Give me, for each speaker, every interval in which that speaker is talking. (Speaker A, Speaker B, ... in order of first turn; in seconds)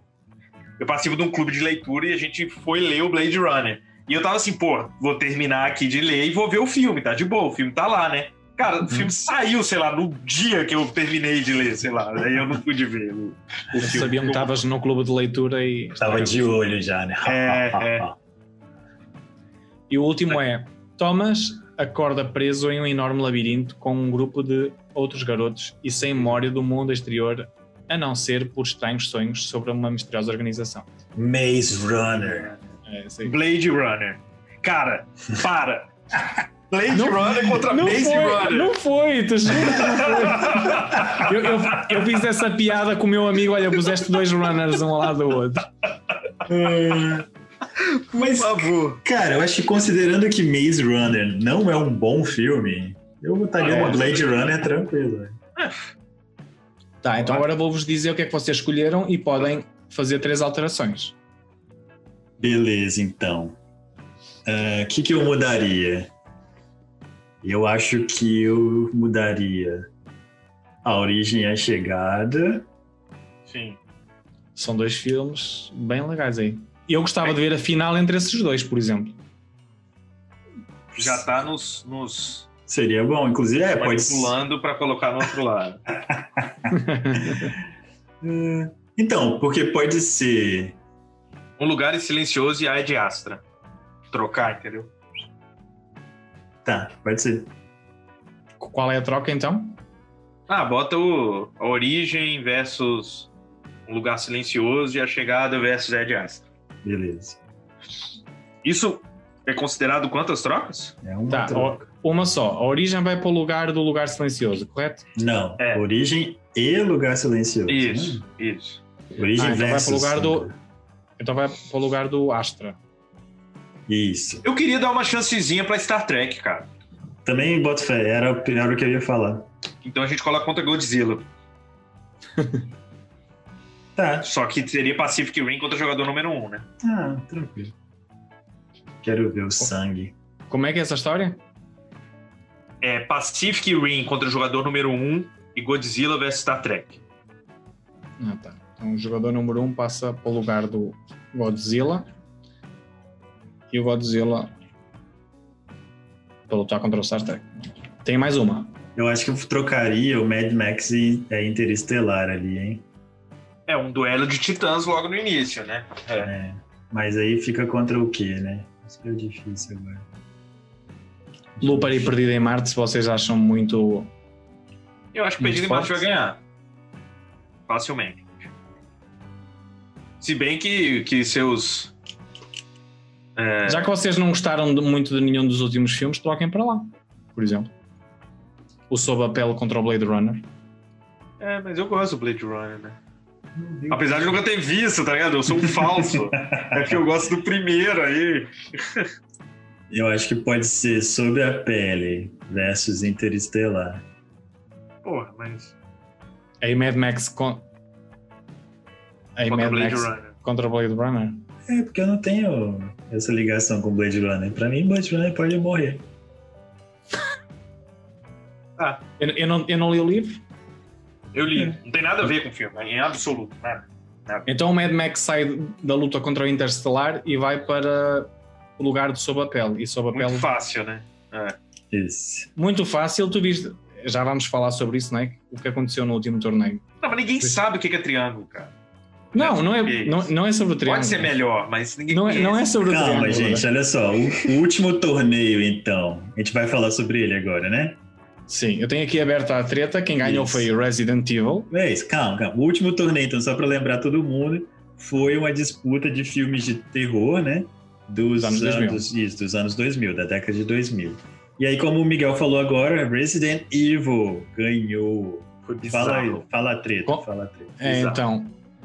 Speaker A: 0.8-14.5, 17.2-18.1, 32.3-32.6, 33.2-35.9, 36.7-38.8, 39.6-41.2, 47.8-49.0, 53.6-54.6, 73.5-73.8, 80.9-82.5, 83.8-85.8, 91.6-93.4, 94.1-94.9, 100.5-103.3, 103.9-106.4, 108.6-111.0, 115.6-115.8, 117.7-118.8, 124.4-126.7, 129.8-131.3, 134.2-136.7, 142.8-147.0, 163.7-166.3, 175.1-176.4, 177.7-178.5, 180.2-181.9, 183.4-183.9, 191.4-193.0, 193.9-199.1, 205.0-205.7, 209.5-210.3, 221.3-224.5, 230.1-231.6, 237.0-238.7, 239.3-240.3, 240.8-242.7, 265.7-266.5, 267.8-268.2
Speaker B: 13.7-14.1, 16.0-18.2, 31.1-32.5, 46.5-47.3, 48.1-55.4, 62.4-63.6, 64.5-66.1, 67.4-69.9, 70.8-72.7, 81.0-81.3, 82.7-84.4, 86.0-87.5, 88.2-90.8, 96.6-97.5, 106.8-107.4, 111.0-111.8, 115.2-118.2, 119.1-120.5, 123.9-124.4, 127.2-129.5, 134.0-134.3, 136.8-137.7, 139.0-140.1, 159.0-162.8, 166.2-170.1, 171.6-172.1, 193.5-194.3, 195.6-196.9, 199.9-204.0, 211.7-216.0, 231.9-232.5, 242.8-248.0, 250.2-250.7, 251.7-267.8
Speaker C: 13.8-16.5, 19.9-31.0, 32.9-33.4, 36.9-45.7, 53.7-54.0, 57.0-61.1, 74.6-79.2, 86.7-87.5, 98.6-99.8, 111.3-115.1, 119.4-120.5, 121.2-122.8, 132.4-132.6, 140.5-141.4, 148.2-152.1, 153.7-154.5, 156.5-158.8, 171.6-174.1, 175.4-176.1, 183.7-187.7, 188.9-190.5, 206.6-207.6, 209.4-211.4, 219.2-220.4, 224.5-230.5, 232.6-236.8, 239.3-241.3, 242.1-243.7, 248.5-251.7, 258.4-259.1, 267.8-268.6